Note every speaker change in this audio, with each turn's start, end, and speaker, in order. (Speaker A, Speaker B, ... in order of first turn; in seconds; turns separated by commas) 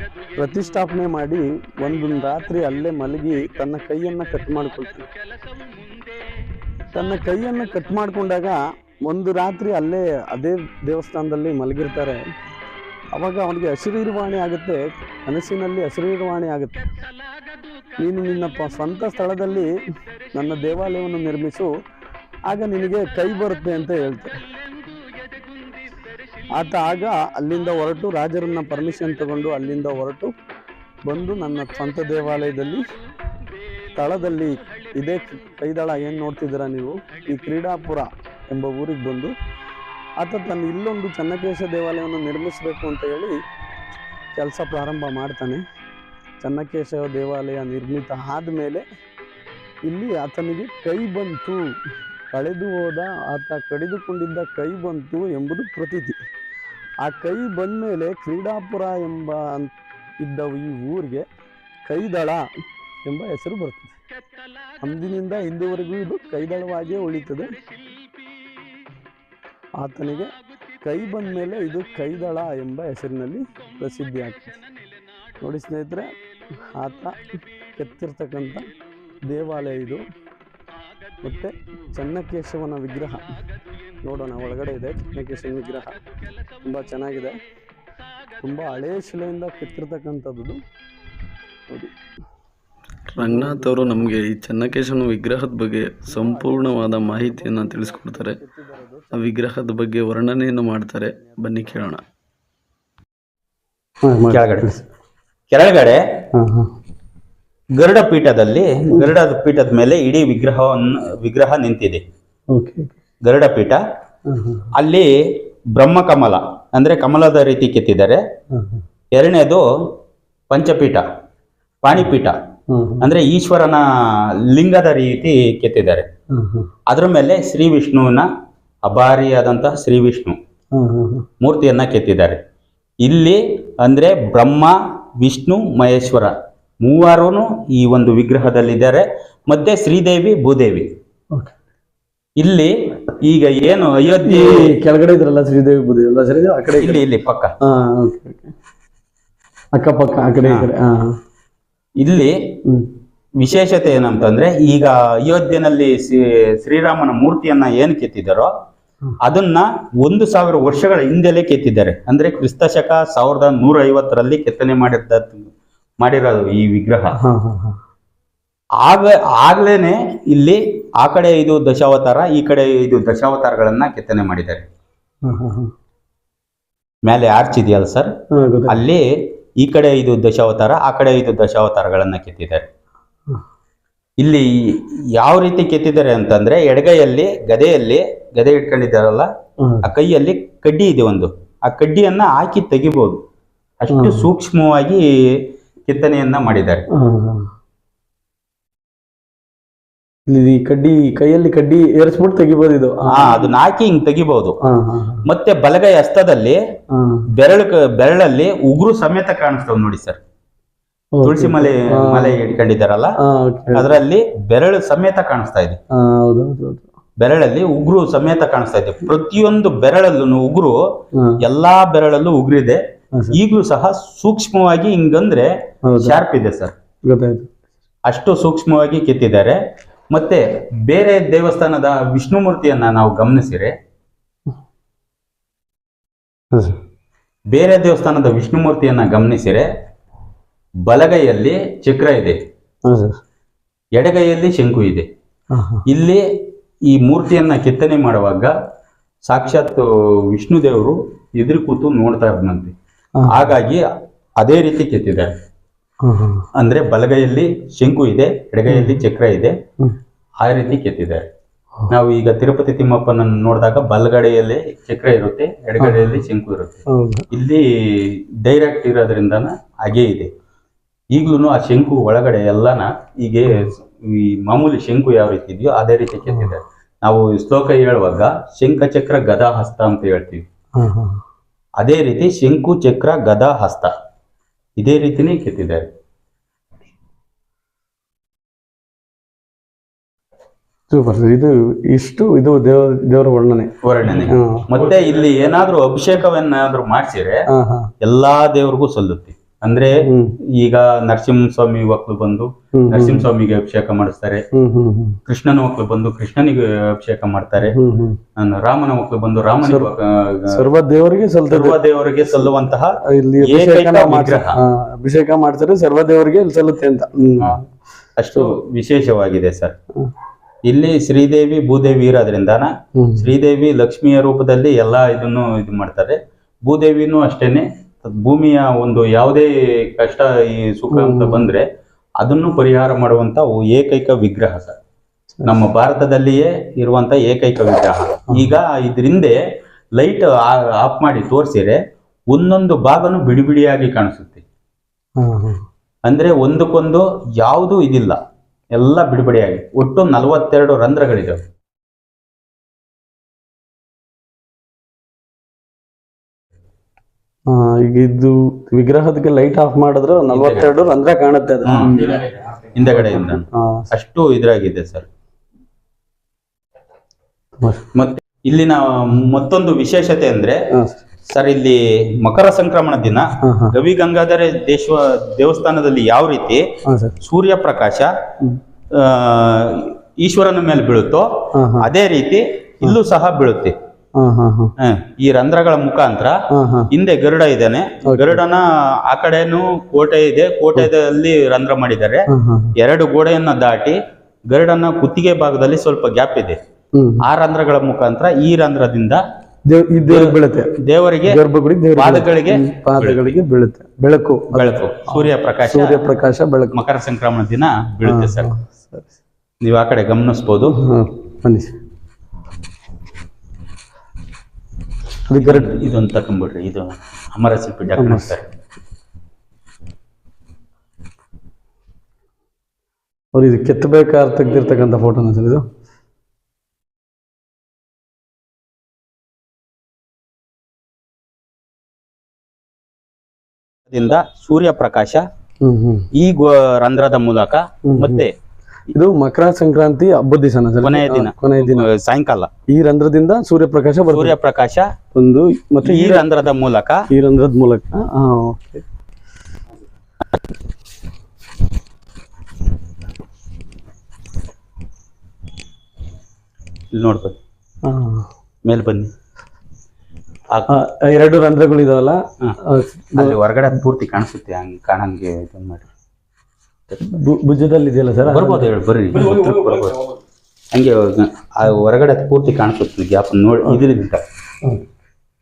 Speaker A: 0.4-5.1, Speaker A: 6.9-12.2, Speaker A: 13.1-16.9, Speaker A: 18.0-19.7, Speaker A: 20.3-21.7, Speaker A: 22.5-24.3, Speaker A: 26.6-30.3, Speaker A: 31.1-32.8, Speaker A: 34.0-39.3, Speaker A: 40.2-43.4, Speaker A: 44.4-45.6, Speaker A: 46.4-48.8, Speaker A: 49.9-51.7, Speaker A: 52.3-56.2, Speaker A: 57.0-61.2, Speaker A: 61.9-62.5, Speaker A: 63.0-64.0, Speaker A: 64.8-67.5, Speaker A: 69.8-70.3, Speaker A: 70.8-74.6, Speaker A: 75.4-76.1, Speaker A: 76.8-77.2, Speaker A: 77.8-78.6, Speaker A: 79.3-80.0, Speaker A: 81.2-83.2, Speaker A: 84.0-86.0, Speaker A: 86.7-87.3, Speaker A: 88.4-90.6, Speaker B: 93.1-98.4, Speaker A: 93.2-94.1, Speaker A: 96.0-99.5, Speaker B: 99.1-102.0, Speaker A: 101.2-101.5, Speaker A: 104.0-104.8, Speaker C: 104.3-104.7, Speaker C: 105.5-106.0, Speaker A: 106.3-106.7, Speaker C: 107.8-112.0, Speaker A: 112.5-112.9, Speaker C: 113.2-113.8, Speaker A: 114.3-114.7, Speaker C: 114.7-115.1, Speaker C: 115.8-118.2, Speaker A: 118.5-118.8, Speaker C: 119.1-119.6, Speaker C: 120.5-121.0, Speaker C: 121.8-122.3, Speaker A: 122.7-123.1, Speaker C: 123.0-126.1, Speaker A: 126.3-126.7, Speaker C: 126.9-128.3, Speaker C: 128.8-130.4, Speaker A: 130.8-131.3, Speaker C: 131.4-132.4, Speaker C: 133.0-140.9, Speaker C: 142.4-144.8, Speaker A: 144.2-147.0, Speaker C: 146.8-147.5, Speaker A: 147.6-148.5, Speaker A: 149.8-151.1, Speaker C: 152.0-152.4, Speaker C: 153.4-158.5, Speaker C: 159.2-167.1, Speaker A: 167.2-167.8, Speaker C: 168.8-174.7, Speaker A: 175.2-175.7, Speaker C: 177.1-178.1, Speaker A: 178.3-178.8, Speaker C: 178.7-182.7, Speaker C: 184.2-189.3, Speaker A: 189.6-189.9, Speaker C: 189.8-193.2, Speaker C: 193.8-196.8, Speaker A: 193.9-194.3, Speaker A: 196.9-197.5, Speaker A: 200.3-203.5, Speaker C: 203.1-204.6, Speaker A: 204.7-205.2, Speaker C: 205.2-206.6, Speaker A: 206.9-207.3, Speaker C: 207.4-210.2, Speaker A: 211.2-212.4, Speaker C: 211.2-213.1, Speaker A: 213.2-214.0, Speaker C: 213.7-215.8, Speaker A: 215.9-216.9, Speaker C: 217.2-220.8, Speaker C: 221.4-222.8, Speaker C: 223.3-226.7, Speaker A: 225.9-226.2, Speaker A: 227.1-227.5, Speaker C: 228.1-229.6, Speaker C: 230.1-233.7, Speaker A: 236.5-236.8, Speaker C: 237.5-239.7, Speaker C: 240.9-242.4, Speaker A: 242.9-243.2, Speaker C: 244.0-245.1, Speaker A: 245.5-245.8, Speaker C: 245.9-246.2, Speaker C: 246.9-248.5, Speaker C: 249.3-252.7, Speaker A: 253.2-253.5, Speaker C: 253.3-253.8, Speaker C: 254.4-255.3, Speaker A: 256.0-256.5, Speaker C: 256.6-259.6, Speaker A: 258.7-259.0, Speaker C: 260.4-261.2, Speaker C: 261.9-266.8, Speaker A: 265.8-266.2, Speaker A: 266.9-267.3, Speaker C: 267.3-270.3, Speaker C: 271.1-280.4, Speaker A: 280.8-281.2, Speaker C: 281.8-283.9, Speaker C: 284.8-285.9, Speaker A: 290.9-293.7, Speaker C: 293.8-297.4, Speaker A: 294.2-294.7, Speaker A: 297.5-297.9, Speaker C: 298.0-304.4, Speaker A: 300.0-300.4, Speaker A: 302.8-303.3, Speaker A: 304.5-305.2, Speaker C: 305.3-307.8, Speaker A: 307.6-308.2, Speaker C: 308.4-310.6, Speaker A: 309.6-309.9, Speaker A: 310.5-312.5, Speaker C: 311.5-314.6, Speaker A: 313.0-317.6, Speaker C: 318.2-319.8, Speaker C: 320.7-331.7, Speaker A: 323.0-323.3, Speaker A: 330.9-331.5, Speaker C: 332.2-334.8, Speaker C: 335.4-339.4, Speaker C: 340.0-341.8, Speaker C: 342.3-344.4, Speaker A: 345.2-345.6, Speaker C: 346.1-348.2, Speaker C: 348.7-351.4, Speaker A: 357.5-362.3, Speaker C: 360.3-360.7, Speaker C: 361.6-365.1, Speaker A: 363.0-363.9, Speaker A: 367.6-367.8, Speaker C: 367.9-370.6, Speaker A: 370.7-371.0, Speaker C: 371.3-376.6, Speaker A: 373.4-373.8, Speaker A: 376.9-377.1, Speaker C: 377.2-378.1, Speaker C: 378.9-383.8, Speaker A: 381.6-381.9, Speaker A: 384.2-384.7, Speaker C: 384.8-386.4, Speaker A: 386.5-386.9, Speaker C: 386.9-392.2, Speaker A: 388.1-388.4, Speaker A: 392.3-392.7, Speaker C: 392.8-394.0, Speaker C: 394.5-396.6, Speaker A: 397.0-397.2, Speaker C: 397.2-399.2, Speaker A: 399.7-400.8, Speaker C: 400.0-401.4, Speaker A: 401.3-406.8, Speaker C: 402.0-403.4, Speaker C: 404.5-406.0, Speaker C: 406.7-408.5, Speaker A: 408.1-409.1, Speaker C: 409.6-410.8, Speaker A: 410.6-411.7, Speaker A: 415.3-415.7, Speaker C: 415.4-418.4, Speaker A: 418.0-418.4, Speaker A: 423.3-425.6, Speaker C: 433.9-435.2, Speaker A: 435.6-436.1, Speaker C: 436.1-438.3, Speaker A: 437.9-438.2, Speaker A: 438.9-441.9, Speaker C: 440.8-442.5, Speaker A: 442.7-444.4, Speaker C: 444.1-444.9, Speaker A: 445.1-446.2, Speaker C: 445.8-447.0, Speaker A: 447.1-448.8, Speaker C: 456.9-457.4, Speaker A: 457.9-458.3, Speaker C: 458.6-459.1, Speaker A: 460.7-463.4, Speaker C: 463.2-465.9, Speaker A: 467.0-469.5, Speaker C: 468.2-470.0, Speaker C: 470.7-474.2